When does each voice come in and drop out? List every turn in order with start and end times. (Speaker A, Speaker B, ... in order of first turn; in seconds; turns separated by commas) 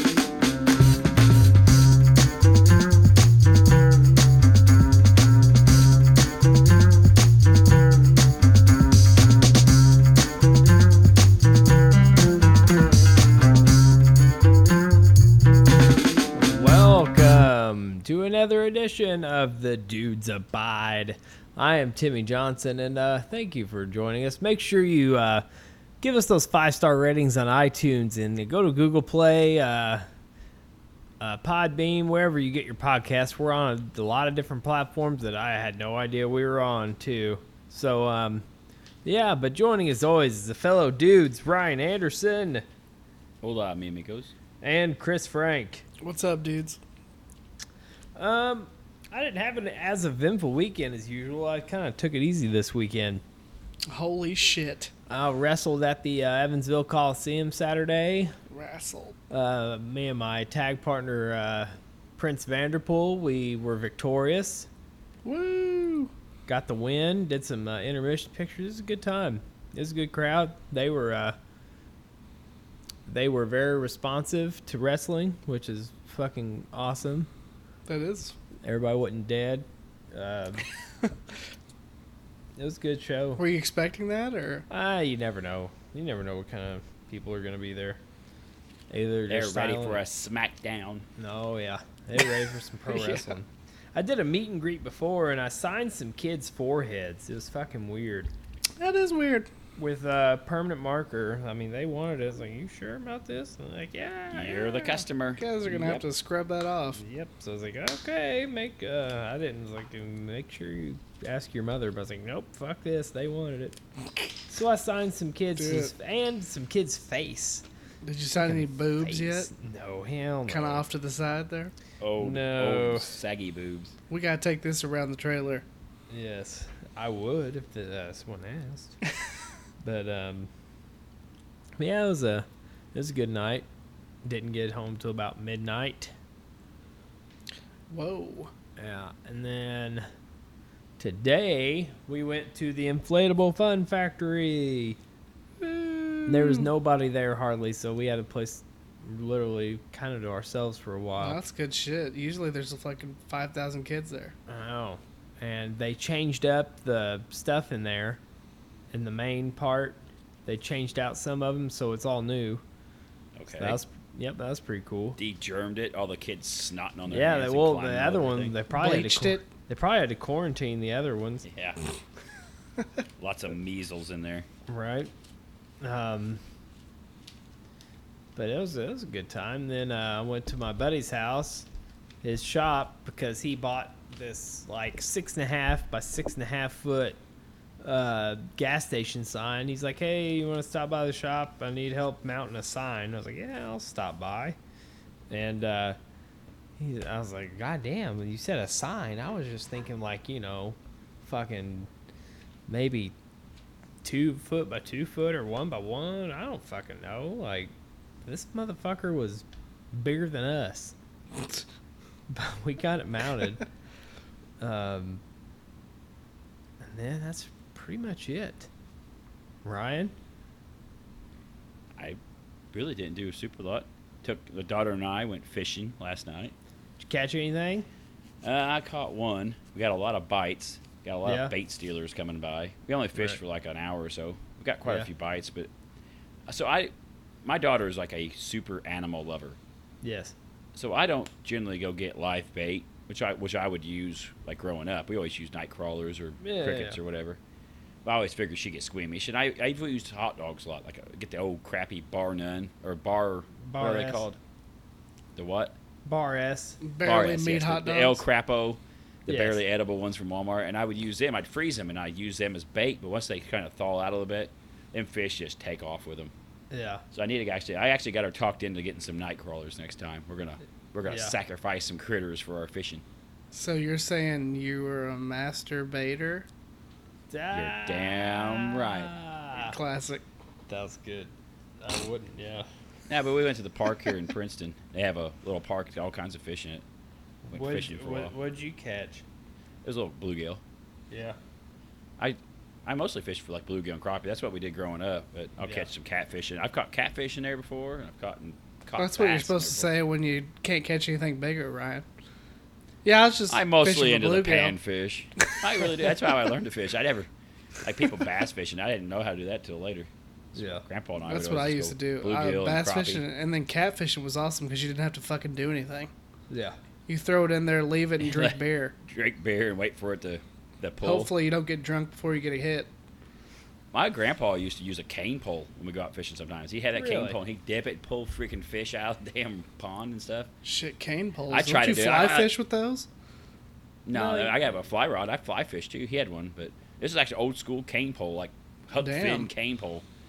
Speaker A: 16.3-25.4, Speaker A: 26.0-30.1, Speaker A: 31.2-38.5, Speaker A: 39.0-42.6, Speaker B: 43.4-44.3, Speaker A: 44.6-45.8, Speaker C: 46.0-46.8, Speaker A: 48.1-53.2, Speaker C: 53.9-54.9, Speaker A: 55.1-58.3, Speaker C: 58.5-59.2, Speaker A: 59.3-64.7, Speaker C: 65.2-66.1, Speaker A: 66.5-71.4, Speaker A: 73.0-77.3, Speaker C: 77.9-78.3, Speaker A: 78.6-80.7, Speaker A: 82.5-83.4, Speaker C: 83.4-84.7, Speaker A: 84.7-88.0, Speaker A: 88.9-90.0, Speaker B: 89.3-91.0, Speaker A: 91.2-98.3, Speaker C: 92.9-93.3, Speaker C: 98.8-99.5, Speaker A: 99.8-105.0, Speaker B: 104.3-106.0, Speaker C: 105.4-107.0, Speaker A: 107.0-113.8, Speaker A: 114.5-117.6, Speaker C: 115.5-115.9, Speaker C: 118.0-119.5, Speaker A: 118.4-120.8, Speaker C: 120.5-121.7, Speaker B: 122.0-123.9, Speaker A: 122.2-123.1, Speaker C: 124.1-125.6, Speaker A: 126.1-129.0, Speaker A: 129.8-130.5, Speaker A: 131.8-133.7, Speaker A: 134.2-136.1, Speaker C: 137.9-138.5, Speaker A: 138.8-140.0, Speaker A: 141.0-145.0, Speaker C: 145.6-146.7, Speaker A: 146.3-151.4, Speaker C: 151.2-154.3, Speaker A: 154.5-158.2, Speaker A: 158.9-162.6, Speaker B: 163.3-163.8, Speaker A: 163.5-165.2, Speaker B: 165.2-168.6, Speaker A: 167.1-171.4, Speaker C: 168.7-169.5, Speaker B: 171.4-171.8, Speaker B: 173.2-174.5, Speaker A: 174.7-175.1, Speaker A: 175.8-176.4, Speaker A: 178.3-181.7, Speaker A: 182.2-187.2, Speaker A: 187.8-194.6, Speaker A: 195.3-196.0, Speaker A: 196.8-201.9, Speaker A: 202.7-203.1, Speaker A: 204.0-207.7, Speaker A: 208.2-210.9, Speaker A: 212.3-213.6, Speaker A: 214.6-215.2, Speaker A: 216.8-218.7, Speaker A: 219.6-220.1, Speaker B: 222.7-226.5, Speaker A: 227.0-227.9, Speaker B: 228.4-235.7, Speaker A: 231.2-231.5, Speaker A: 233.1-233.4, Speaker B: 236.5-236.9, Speaker B: 237.4-239.6, Speaker A: 240.0-240.3, Speaker B: 240.7-247.4, Speaker A: 246.4-247.0, Speaker B: 248.0-254.4, Speaker A: 253.6-254.2, Speaker B: 255.3-255.7, Speaker A: 256.0-256.8, Speaker C: 256.8-258.2, Speaker B: 257.0-266.3, Speaker A: 259.3-259.6, Speaker A: 266.7-267.0, Speaker B: 267.1-273.0, Speaker A: 271.1-271.4, Speaker C: 273.5-276.5, Speaker A: 277.3-279.8, Speaker B: 277.5-279.1, Speaker C: 279.6-280.2, Speaker A: 280.7-282.7, Speaker B: 283.1-286.8, Speaker A: 287.5-289.2, Speaker B: 287.5-288.3, Speaker B: 289.8-290.6, Speaker A: 291.1-291.4, Speaker B: 292.2-299.9, Speaker A: 295.6-295.9, Speaker C: 299.0-302.0, Speaker C: 303.0-304.8, Speaker B: 303.5-307.3, Speaker C: 305.8-306.1, Speaker B: 307.8-313.2, Speaker A: 310.5-310.8, Speaker C: 311.2-316.1, Speaker A: 316.5-316.8, Speaker C: 317.1-318.9, Speaker B: 318.2-321.3, Speaker C: 321.0-322.9, Speaker B: 323.9-330.5, Speaker A: 326.9-327.4, Speaker C: 330.6-333.1, Speaker B: 331.5-332.5, Speaker B: 334.1-340.0, Speaker A: 334.1-334.8, Speaker C: 339.0-339.5